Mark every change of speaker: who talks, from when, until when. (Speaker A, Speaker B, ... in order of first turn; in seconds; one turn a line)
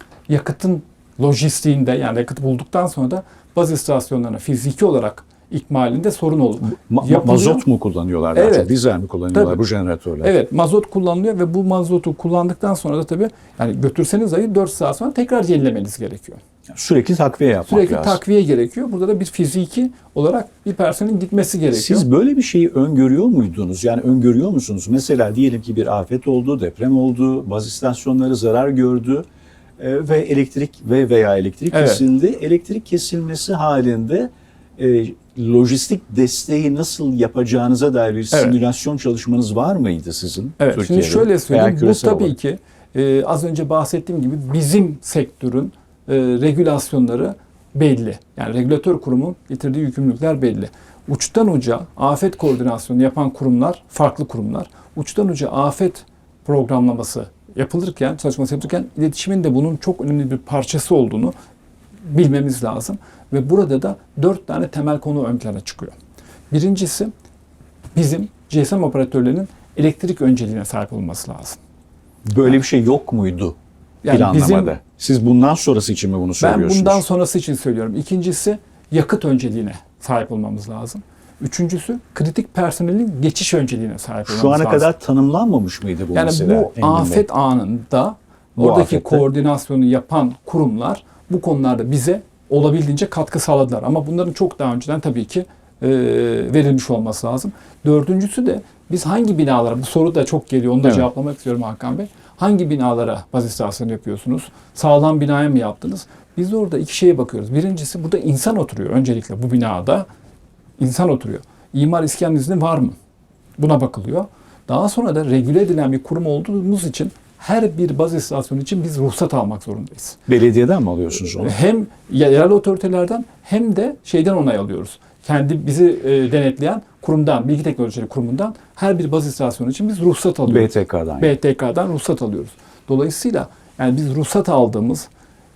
Speaker A: 0.3-7.7
Speaker B: 6.9-10.3
Speaker A: 8.3-8.7
Speaker A: 9.3-9.6
Speaker A: 10.2-16.4
Speaker B: 16.8-18.2
Speaker A: 17.7-22.1
Speaker B: 21.7-29.2
Speaker B: 29.8-42.3
Speaker A: 31.7-32.0
Speaker A: 38.3-38.6
Speaker A: 40.6-61.3
Speaker A: 62.0-66.0
Speaker A: 66.5-67.1
Speaker A: 68.0-71.6
Speaker B: 72.2-73.6
Speaker A: 74.0-74.7
Speaker B: 74.1-77.0
Speaker A: 76.4-84.9
Speaker B: 84.3-87.2
Speaker A: 86.1-110.1
Speaker B: 88.6-89.2
Speaker A: 110.8-113.0
Speaker A: 113.6-120.2
Speaker B: 120.3-121.6
Speaker A: 121.4-135.1
Speaker B: 130.5-131.3